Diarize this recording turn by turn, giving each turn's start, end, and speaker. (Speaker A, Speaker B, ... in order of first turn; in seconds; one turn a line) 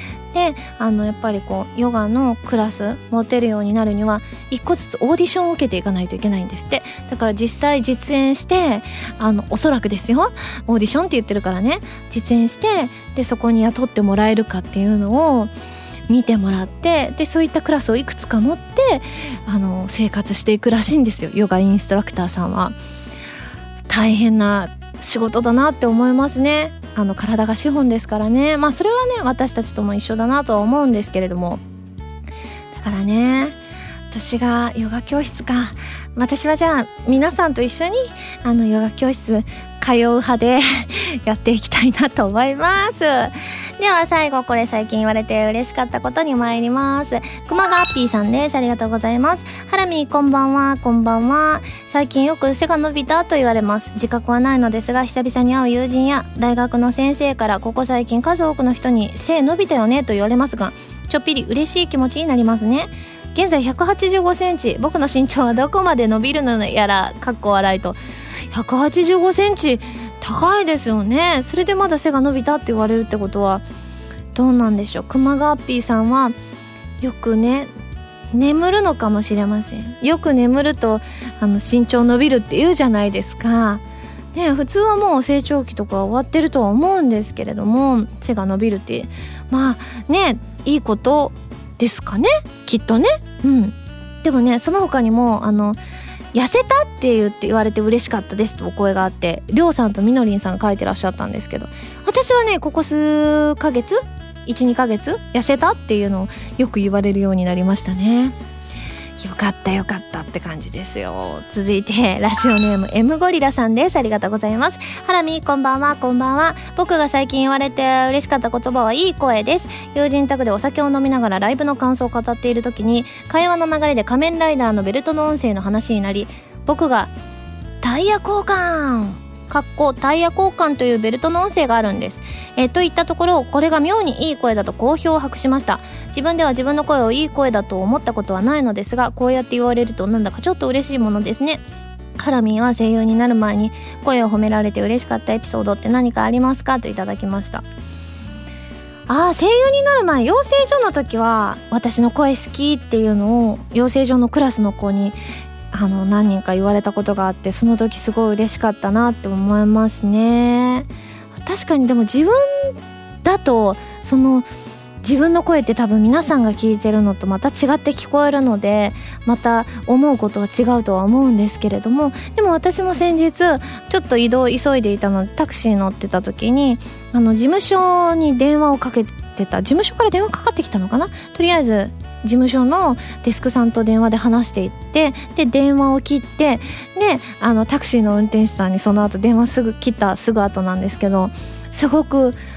Speaker A: 0.3-15.5
Speaker A: 16.1-22.8
Speaker A: 23.9-31.6
Speaker A: 32.7-33.6
Speaker A: 34.1-68.0
Speaker A: 68.5-73.6
Speaker A: 74.3-76.3
Speaker A: 77.0-77.7
Speaker A: 78.3-83.8
Speaker A: 84.3-95.8
Speaker A: 96.3-108.4
Speaker A: 109.2-127.1
Speaker A: 127.8-141.6
Speaker A: 142.2-147.6
Speaker A: 149.1-155.2
Speaker A: 155.7-164.5
Speaker A: 165.0-192.4